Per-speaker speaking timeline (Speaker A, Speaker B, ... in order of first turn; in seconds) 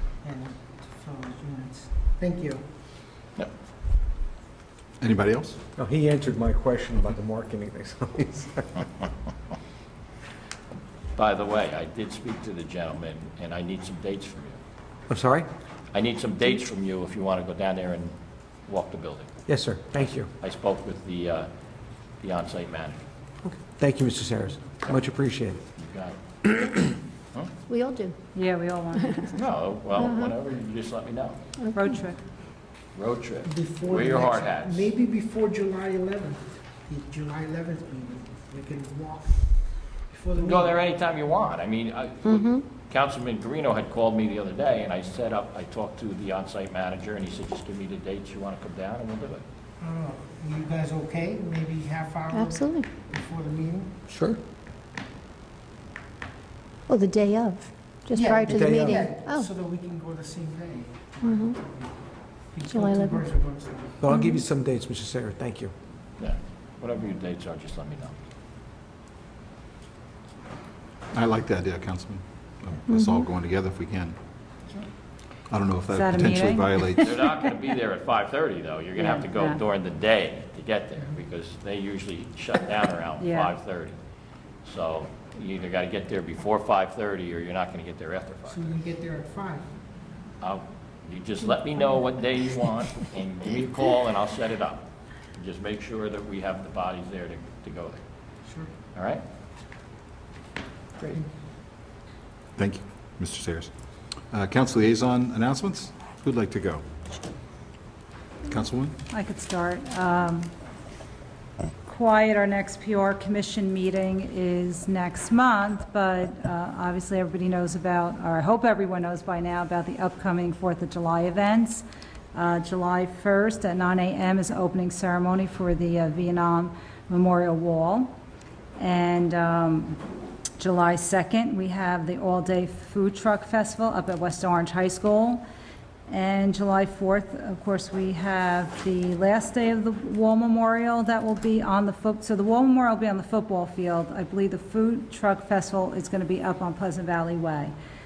Speaker A: 0.2-2.6, 33.5-39.5, 40.1-40.8, 49.8-54.0, 58.1-64.0, 88.5-89.7, 98.5-98.7, 101.0-101.3
Speaker B: 5.0-5.6, 71.1-74.2, 75.5-77.1, 102.6-103.7, 104.3-106.8, 108.5-109.0
Speaker C: 5.8-8.9, 15.1-15.5, 19.5-20.3, 23.8-25.6, 54.1-54.4, 58.4-59.1, 64.0-65.7
Speaker D: 11.2-14.6, 15.9-18.1, 18.7-19.3, 19.9-21.5, 22.2-23.0, 25.8-26.2, 29.3-31.4, 33.0-34.9, 40.4-49.4, 66.2-68.1, 77.0-84.0, 84.6-88.8, 90.4-98.0, 98.9-99.2
Speaker E: 27.7-28.2, 28.9-29.4, 30.0-30.4, 31.6-32.0, 42.2-42.6, 52.3-52.9, 56.9-59.5, 61.2-61.6, 62.7-63.2, 64.1-64.4, 72.9-73.3
Speaker F: 28.4-29.3, 31.8-32.2, 75.9-77.5, 79.0-79.6, 83.2-83.5, 109.1-110.5, 111.9-128.2, 128.8-130.0, 130.6-135.4, 136.1-147.7